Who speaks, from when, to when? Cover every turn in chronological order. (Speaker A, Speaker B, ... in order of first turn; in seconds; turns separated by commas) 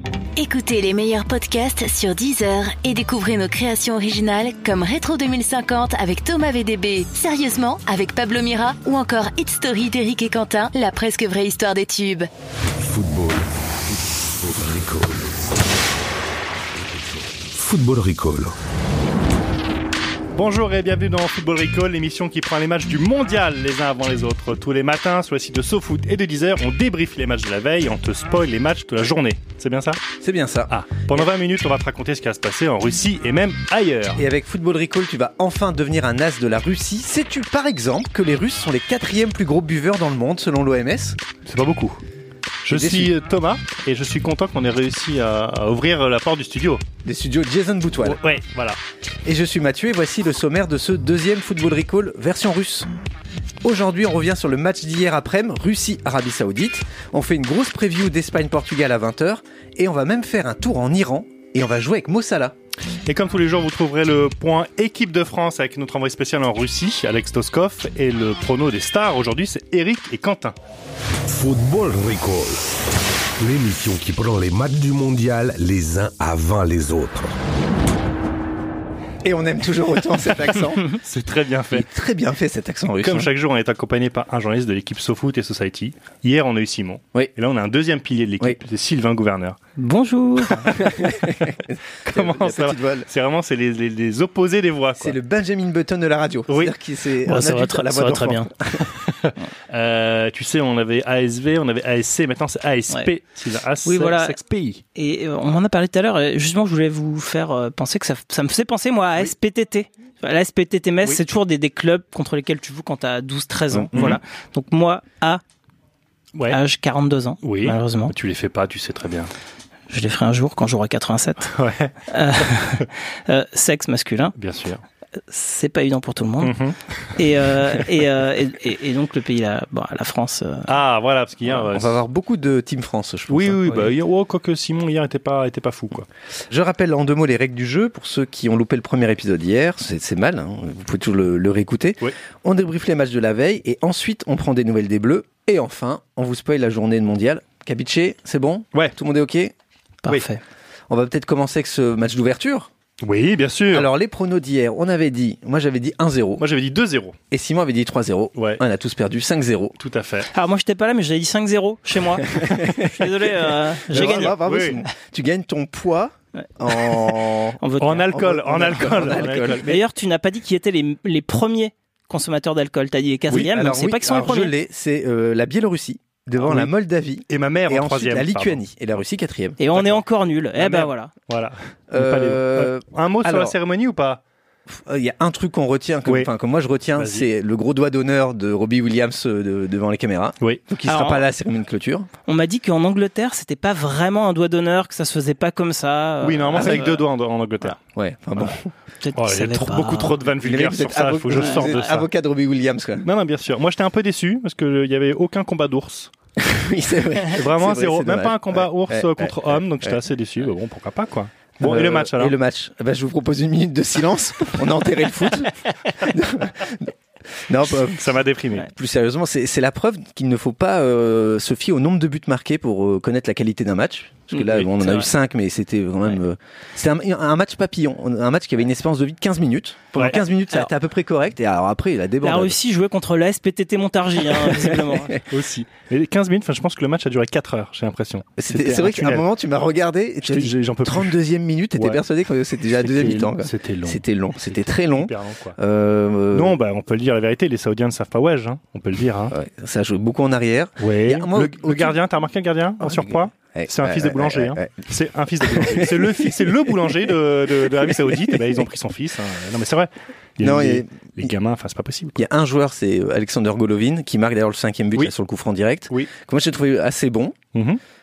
Speaker A: 0.4-12.3, Speaker B: 12.8-15.4, Speaker B: 17.5-18.5, Speaker C: 20.4-30.0, Speaker D: 30.2-31.2, Speaker C: 30.7-34.2, Speaker D: 34.2-41.2, Speaker C: 41.5-42.0, Speaker C: 42.6-46.8, Speaker D: 42.7-43.1, Speaker D: 47.0-48.2, Speaker C: 48.0-48.8, Speaker D: 49.2-52.9, Speaker D: 53.6-62.5, Speaker C: 63.1-70.6, Speaker B: 71.3-72.6, Speaker B: 73.4-77.3, Speaker D: 79.2-80.8, Speaker C: 80.2-81.9, Speaker D: 81.7-83.3, Speaker C: 83.0-89.6, Speaker E: 89.8-90.7, Speaker C: 90.6-90.9, Speaker D: 90.8-93.1, Speaker C: 92.1-95.2, Speaker D: 95.0-98.9, Speaker C: 96.5-96.8, Speaker E: 97.3-98.5, Speaker C: 98.8-104.8, Speaker E: 103.8-104.4, Speaker E: 105.0-115.4, Speaker C: 113.9-114.2, Speaker E: 116.5-118.1, Speaker C: 117.4-119.3, Speaker E: 119.9-121.5, Speaker C: 121.4-121.9, Speaker E: 122.1-124.3, Speaker C: 124.4-124.8, Speaker E: 125.3-126.5, Speaker C: 126.4-126.8, Speaker E: 127.2-130.7, Speaker C: 130.7-132.0, Speaker D: 131.4-133.9, Speaker C: 133.3-136.1, Speaker D: 136.5-149.5, Speaker E: 150.0-150.4, Speaker D: 150.9-152.7, Speaker C: 153.0-153.9, Speaker D: 153.7-156.5, Speaker C: 156.4-157.2, Speaker D: 157.3-159.8, Speaker C: 158.4-158.6, Speaker C: 159.8-160.3, Speaker E: 160.3-164.3, Speaker C: 163.9-164.8, Speaker D: 163.9-169.7, Speaker E: 166.4-168.1, Speaker C: 167.8-169.8, Speaker E: 169.6-174.6, Speaker D: 173.3-179.6, Speaker C: 176.4-176.7, Speaker C: 177.3-178.6, Speaker E: 179.6-181.1, Speaker C: 179.7-180.0, Speaker C: 180.6-184.2, Speaker D: 181.9-183.6, Speaker D: 184.7-192.1, Speaker C: 187.0-187.3, Speaker E: 190.9-191.2, Speaker E: 192.3-197.1, Speaker C: 196.2-197.8, Speaker D: 196.6-196.9, Speaker D: 197.9-198.7, Speaker E: 198.4-200.3, Speaker C: 199.2-202.1, Speaker D: 200.4-203.1, Speaker E: 201.3-202.0, Speaker C: 203.0-206.1, Speaker D: 206.4-210.0, Speaker C: 207.3-212.3, Speaker D: 211.6-216.9, Speaker D: 217.5-232.6, Speaker C: 217.7-218.7, Speaker C: 224.4-224.7, Speaker E: 224.8-225.1, Speaker E: 232.2-235.2, Speaker D: 234.5-235.2, Speaker C: 235.3-239.2, Speaker D: 238.4-246.6, Speaker C: 240.2-241.2, Speaker C: 241.8-242.0, Speaker C: 242.8-245.6, Speaker C: 246.3-249.3, Speaker D: 249.3-252.0, Speaker C: 250.8-262.2, Speaker D: 252.8-254.9, Speaker D: 255.5-257.1, Speaker D: 257.9-258.6, Speaker D: 260.4-261.3, Speaker D: 262.2-267.4, Speaker C: 267.5-267.8